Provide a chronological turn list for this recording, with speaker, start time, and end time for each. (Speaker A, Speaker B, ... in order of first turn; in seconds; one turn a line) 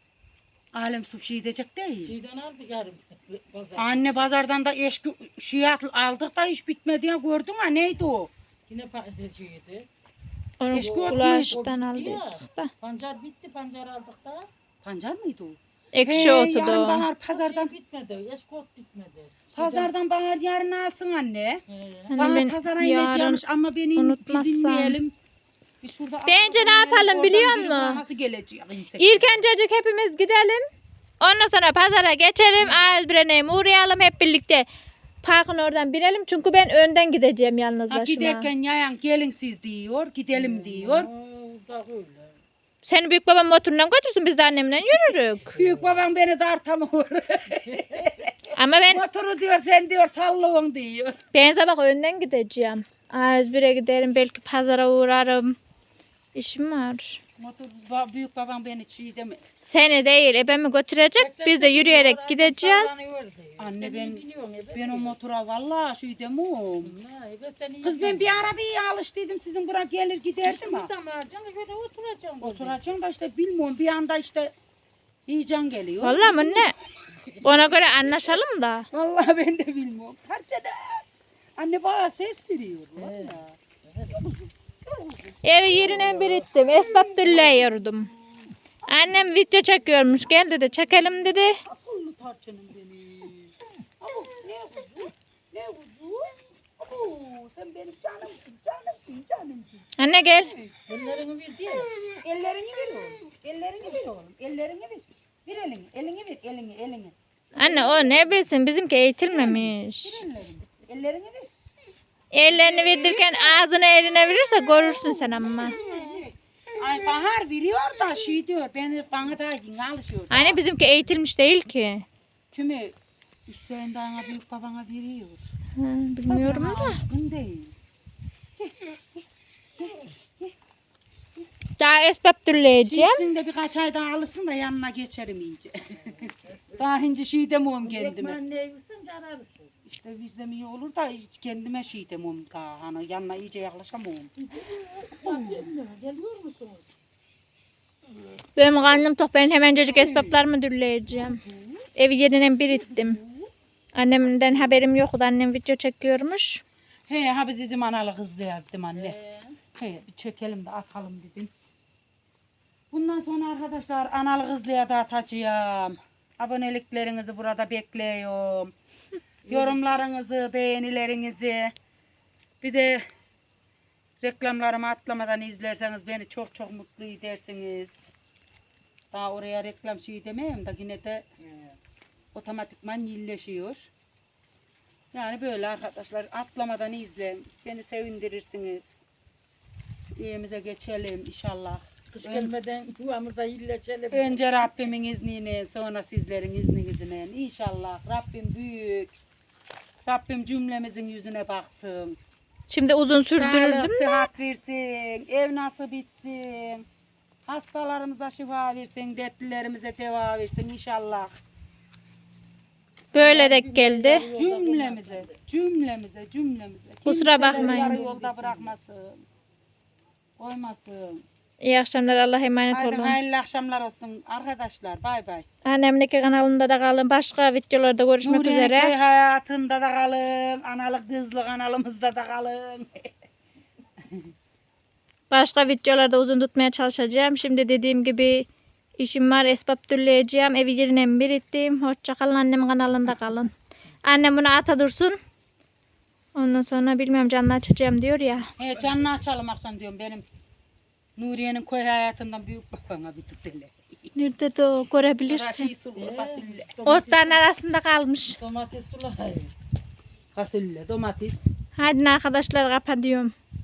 Speaker A: 0.7-2.1
Speaker B: 2.0-4.1
Speaker A: 3.8-8.3
Speaker B: 8.7-9.9
Speaker C: 10.6-12.7
Speaker A: 10.7-11.6
Speaker B: 10.7-14.5
Speaker A: 14.8-17.7
Speaker C: 15.9-17.1
Speaker B: 17.3-19.9
Speaker A: 19.5-21.6
Speaker B: 21.7-22.1
Speaker C: 22.1-23.4
Speaker A: 22.2-25.1
Speaker C: 23.9-25.0
Speaker A: 25.8-29.4
Speaker C: 26.3-28.0
Speaker C: 29.0-30.6
Speaker C: 31.2-34.7
Speaker C: 35.2-38.5
Speaker A: 37.9-41.1
Speaker B: 40.3-42.4
Speaker C: 42.8-45.5
Speaker A: 45.5-51.2
Speaker B: 47.6-48.2
Speaker C: 48.5-49.0
Speaker C: 51.3-55.6
Speaker C: 56.3-57.2
Speaker A: 57.4-59.4
Speaker C: 59.6-63.0
Speaker B: 61.2-65.2
Speaker A: 63.6-66.9
Speaker B: 66.8-68.5
Speaker A: 67.8-70.9
Speaker B: 70.4-72.8
Speaker A: 72.4-74.5
Speaker A: 75.3-76.7
Speaker C: 76.0-76.7
Speaker C: 77.4-78.9
Speaker A: 78.0-78.3
Speaker A: 78.9-81.0
Speaker A: 81.6-87.7
Speaker B: 83.0-83.4
Speaker C: 85.4-88.1
Speaker C: 88.8-91.6
Speaker A: 91.6-100.7
Speaker C: 100.0-100.5
Speaker B: 100.9-101.9
Speaker A: 102.2-107.1
Speaker C: 107.5-110.2
Speaker A: 109.3-111.5
Speaker C: 112.3-115.8
Speaker A: 112.5-113.6
Speaker A: 115.2-120.6
Speaker C: 120.3-122.0
Speaker A: 122.5-122.9
Speaker A: 123.5-125.5
Speaker C: 125.8-127.0
Speaker A: 126.3-127.7
Speaker A: 128.6-129.0
Speaker A: 129.8-130.5
Speaker C: 131.8-133.2
Speaker A: 132.8-138.4
Speaker B: 136.2-136.6
Speaker B: 137.8-139.7
Speaker A: 139.9-144.3
Speaker B: 144.4-146.8
Speaker A: 145.2-145.7
Speaker C: 148.6-151.4
Speaker A: 149.8-150.4
Speaker C: 151.9-153.2
Speaker A: 152.7-153.5
Speaker C: 153.9-156.6
Speaker A: 157.1-159.1
Speaker B: 158.9-159.6
Speaker A: 159.8-161.5
Speaker A: 162.9-168.7
Speaker B: 169.4-169.8
Speaker A: 169.5-171.7
Speaker A: 172.6-173.0
Speaker A: 174.2-178.1
Speaker A: 179.1-181.2
Speaker A: 182.3-183.9
Speaker A: 185.1-189.0
Speaker A: 190.2-192.5
Speaker B: 192.1-194.5
Speaker A: 194.1-199.1
Speaker A: 200.1-202.2
Speaker C: 202.7-204.3
Speaker A: 203.2-206.8
Speaker A: 207.5-211.3
Speaker C: 213.1-214.3
Speaker B: 213.1-215.4
Speaker A: 214.3-219.2
Speaker C: 217.1-218.1
Speaker B: 217.4-218.7
Speaker A: 220.4-221.2
Speaker C: 221.6-223.2
Speaker A: 222.7-225.4
Speaker C: 225.7-228.9
Speaker A: 228.2-233.1
Speaker C: 235.3-238.4
Speaker C: 239.0-243.5
Speaker C: 244.1-245.2
Speaker C: 246.3-248.5
Speaker A: 248.6-250.2
Speaker A: 251.2-254.1
Speaker C: 254.2-255.7
Speaker A: 255.2-257.2
Speaker B: 255.9-257.4
Speaker C: 256.9-258.4
Speaker B: 258.4-259.5
Speaker A: 260.4-261.5
Speaker C: 261.8-263.3